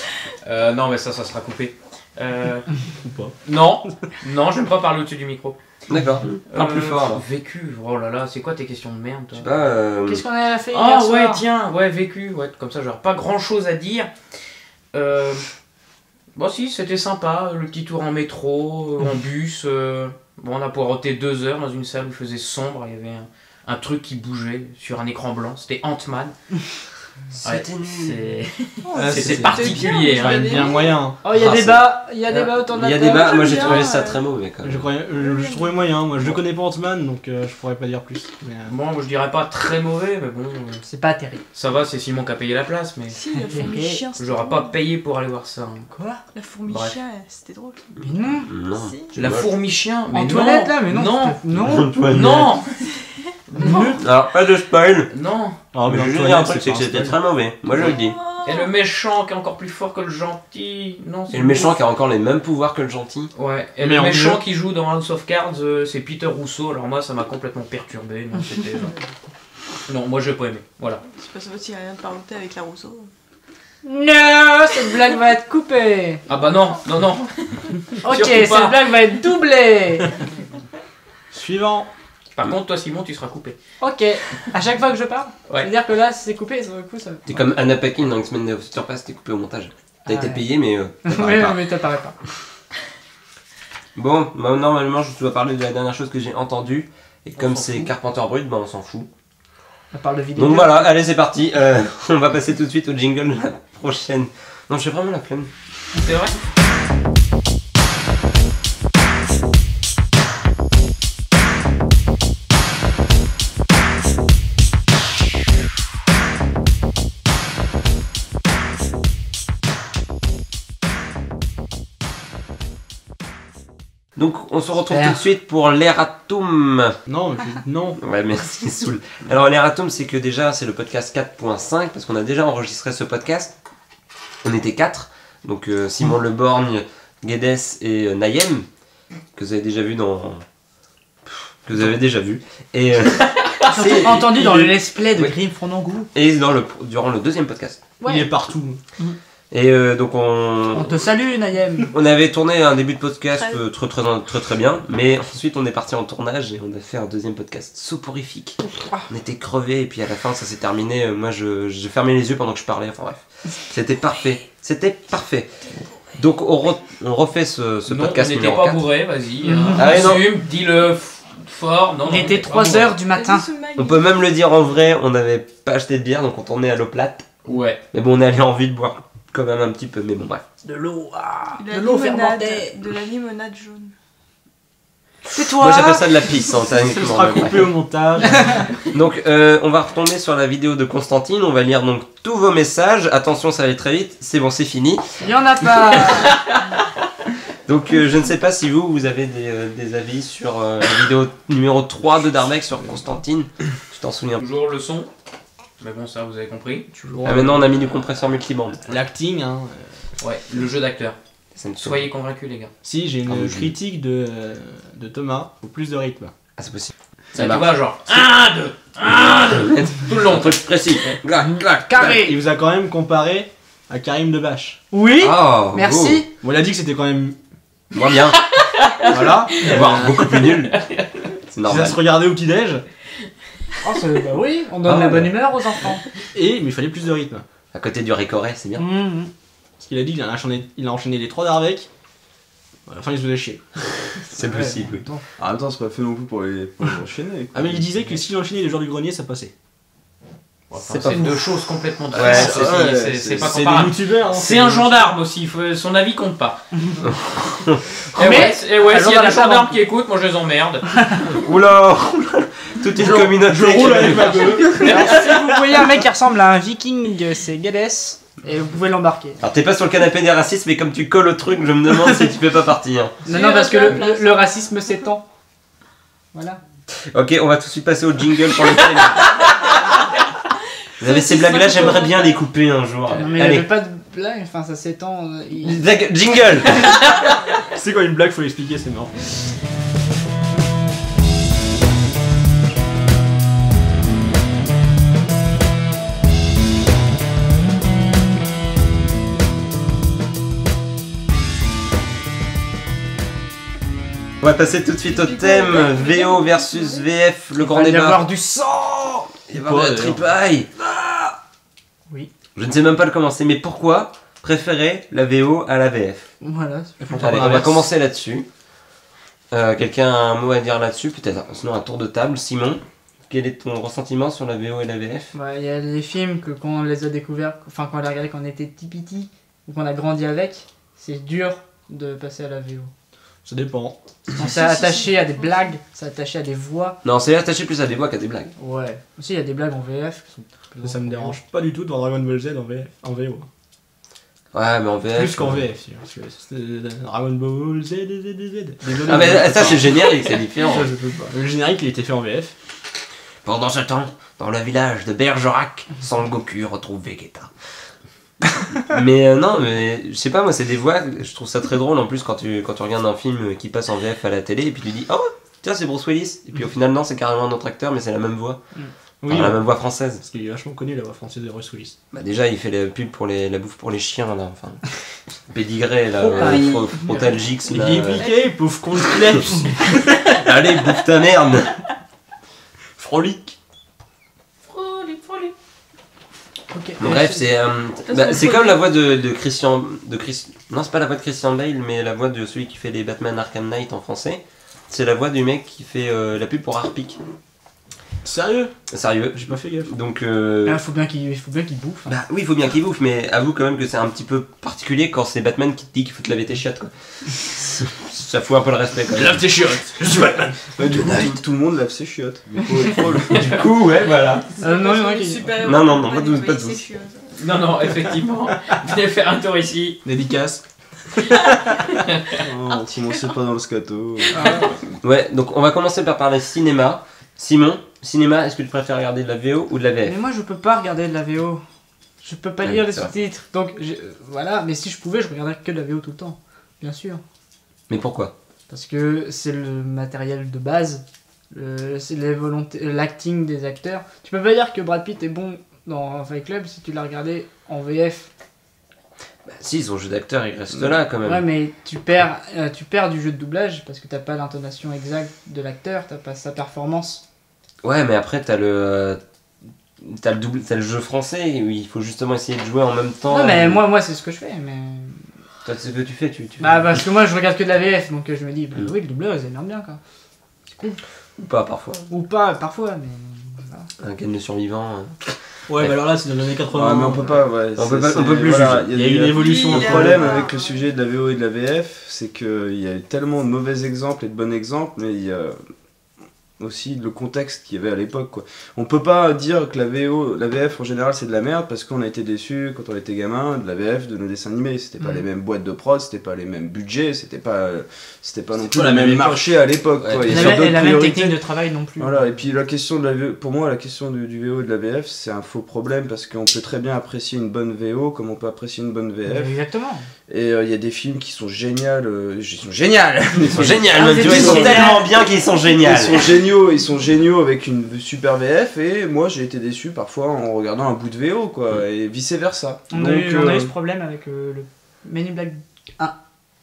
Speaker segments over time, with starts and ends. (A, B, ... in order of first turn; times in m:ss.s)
0:00.4-0:02.9 A
0:03.0-0:03.3 B
0:03.4-0:05.6 A
0:05.9-0:07.2 C
0:06.5-0:09.7 A
0:09.3-0:10.2 C
0:10.1-0:11.4 D
0:10.7-0:14.1 A
0:14.9-0:15.4 A
0:16.3-0:26.4 A
0:27.4-0:28.4 C
0:27.4-0:30.8 A
0:28.8-0:31.0 E
0:28.9-0:31.2 B
0:31.2-0:33.8 D
0:31.3-0:34.9 C
0:32.9-0:34.3 E
0:34.6-0:38.7 B
0:35.1-0:36.1 E
0:38.6-0:40.8 A
0:40.8-0:41.4 D
0:41.5-0:43.2 A
0:43.1-0:44.7 E
0:43.5-0:44.0 D
0:44.2-0:45.9 A
0:45.9-0:46.2 D
0:46.3-0:47.8 E
0:48.0-0:48.5 D
0:48.4-0:49.5 C
0:48.7-0:49.1 E
0:49.1-0:51.4 A
0:50.1-0:52.2 D
0:51.5-0:52.5 C
0:52.0-0:52.8 A
0:53.5-0:53.9 A
0:53.6-0:54.0 D
0:54.0-0:55.1 C
0:55.1-0:55.6 A
0:55.7-0:57.2 B
0:55.8-0:58.2 C
0:57.8-0:58.7 E
0:58.4-1:01.8 A
1:01.3-1:03.3 C
1:03.3-1:09.0 A
1:03.8-1:04.4 B
1:09.9-1:11.0 A
1:11.1-1:13.1 E
1:13.8-1:16.2 D
1:16.3-1:18.8 A
1:18.0-1:20.1 D
1:21.3-1:21.9 B
1:22.4-1:23.6 A
1:23.8-1:27.2 D
1:27.3-1:31.6 C
1:30.0-1:30.4 D
1:31.0-1:32.2 D
1:34.0-1:39.1 C
1:37.4-1:37.9 A
1:39.9-1:40.9 D
1:40.4-1:45.5 C
1:46.0-1:46.3 A
2:04.2-2:07.0 C
2:04.9-2:05.2 D
2:07.1-2:08.0 B
2:08.0-2:13.6 C
2:14.4-2:18.7 C
2:19.3-2:20.4 C
2:21.2-2:25.3 C
2:23.7-2:26.1 D
2:26.1-2:27.8 C
2:28.0-2:28.3 E
2:28.0-2:28.8 B
2:29.5-2:31.0 C
2:30.7-2:31.9 D
2:31.9-2:45.5 C
2:33.3-2:33.6 E
2:46.2-2:48.8 C
2:47.9-2:53.0 A
2:49.4-2:50.0 D
2:49.7-2:50.3 C
2:52.0-2:53.4 D
2:53.0-2:54.0 E
2:53.8-2:57.3 C
2:57.4-2:57.8 A
2:57.9-3:00.4 C
3:00.6-3:02.7 D
3:01.6-3:03.9 E
3:05.3-3:06.3 D
3:05.3-3:07.8 C
3:06.7-3:08.8 B
3:08.9-3:16.0 C
3:15.2-3:16.4 D
3:16.3-3:16.6 A
3:17.6-3:24.4 C
3:24.4-3:25.1 A
3:25.8-3:26.9 A
3:26.9-3:27.8 B
3:27.2-3:29.0 C
3:28.8-3:30.1 B
3:30.2-3:31.2 A
3:31.5-3:32.0 C
3:31.8-3:32.7 A
3:32.8-3:36.3 B
3:33.2-3:33.7 C
3:36.6-3:37.7 C
3:37.3-3:41.1 A
3:39.5-3:42.2 C
3:41.9-3:42.4 D
3:42.1-3:44.8 B
3:44.9-3:46.3 D
3:45.2-3:46.2 C
3:46.4-3:47.4 B
3:47.9-3:48.4 C
3:48.4-3:51.3 A
3:49.1-3:50.4 B
3:49.6-3:50.8 C
3:51.5-3:52.0 C
3:51.6-3:52.8 B
3:53.8-3:56.0 D
3:54.8-3:55.3 C
3:56.3-3:57.4 B
3:57.7-3:58.9 C
3:58.8-3:59.3 D
3:59.8-4:01.9 B
4:02.8-4:03.6 B
4:04.3-4:05.0 C
4:04.4-4:05.2 D
4:05.4-4:07.9 F
4:07.5-4:09.5 B
4:10.7-4:16.6 A
4:10.8-4:11.4 C
4:12.1-4:12.5 C
4:12.2-4:13.6 F
4:12.3-4:14.9 B
4:17.0-4:17.9 C
4:18.1-4:21.2 A
4:18.2-4:19.7 D
4:21.3-4:25.1 C
4:23.0-4:25.8 B
4:24.8-4:29.4 D
4:29.4-4:33.2 C
4:33.3-4:34.7 E
4:33.3-4:35.2 D
4:36.3-4:36.6 D
4:37.1-4:39.4 C
4:41.0-4:43.7 C
4:41.0-4:42.4 E
4:43.1-4:45.8 D
4:45.6-4:47.0 C
4:47.7-4:49.1 B
5:04.4-5:08.2 C
5:05.0-5:07.1 E
5:07.6-5:09.3 D
5:09.5-5:10.7 C
5:09.5-5:10.3 B
5:11.0-5:11.3 D
5:12.5-5:16.3 C
5:16.4-5:17.1 D
5:17.0-5:17.9 B
5:17.2-5:18.4 C
5:19.5-5:25.3 C
5:25.3-5:32.9 D
5:33.4-5:34.0 B
5:34.4-5:37.0 D
5:34.4-5:35.6 E
5:37.0-5:38.5 C
5:38.6-5:41.4 D
5:40.8-5:43.5 B
5:44.5-5:45.7 C
5:45.1-5:52.5 B
5:49.0-5:50.9 C
5:53.4-5:57.5 C
5:58.7-6:08.6 C
6:09.2-6:12.0 B
6:09.3-6:10.2 C
6:12.1-6:18.3 C
6:16.2-6:17.2 D
6:16.3-6:17.3 E
6:17.7-6:20.3 B
6:18.2-6:18.6 E
6:20.3-6:21.8 C
6:23.0-6:23.6 B
6:24.7-6:25.5 A
6:26.7-6:27.4 D
6:27.0-6:37.2 C
6:28.1-6:28.8 E
6:38.2-6:38.7 B
6:38.9-6:40.8 C
6:39.3-6:39.9 B
6:40.6-6:42.1 D
6:42.0-6:49.4 C
6:49.1-6:51.4 B
6:50.8-6:53.4 F
6:53.3-6:54.4 A
6:53.3-6:54.4 C
6:54.6-6:57.4 E
6:54.6-6:55.5 D
6:55.6-6:56.8 C
6:57.4-7:00.0 A
7:00.0-7:02.0 B
7:02.0-7:02.4 A
7:02.4-7:04.5 F
7:02.7-7:03.4 E
7:04.4-7:04.7 B
7:05.0-7:10.1 C
7:10.0-7:11.6 D
7:12.2-7:17.2 D
7:12.6-7:13.1 C
7:17.9-7:18.3 C
7:18.7-7:28.3 D
7:29.4-7:31.4 C
7:31.2-7:37.2 D
7:37.8-7:39.2 C
7:40.0-7:43.8 C
7:43.3-7:45.2 D
7:45.6-7:47.0 C
7:46.6-7:50.0 D
7:51.4-7:52.1 C
7:52.1-7:53.9 D
7:54.0-7:55.9 C
7:55.7-7:57.4 B
7:56.7-8:05.6 F
7:57.7-7:58.9 C
7:58.5-8:00.5 B
7:59.3-8:00.8 E
8:06.6-8:21.4 F
8:18.6-8:19.6 B
8:20.0-8:20.6 C
8:20.2-8:22.2 D
8:22.0-8:29.6 F
8:29.2-8:30.1 D
8:30.3-8:35.0 F
8:33.5-8:36.2 C
8:33.9-8:35.0 D
8:35.8-8:43.7 F
8:42.9-8:46.1 D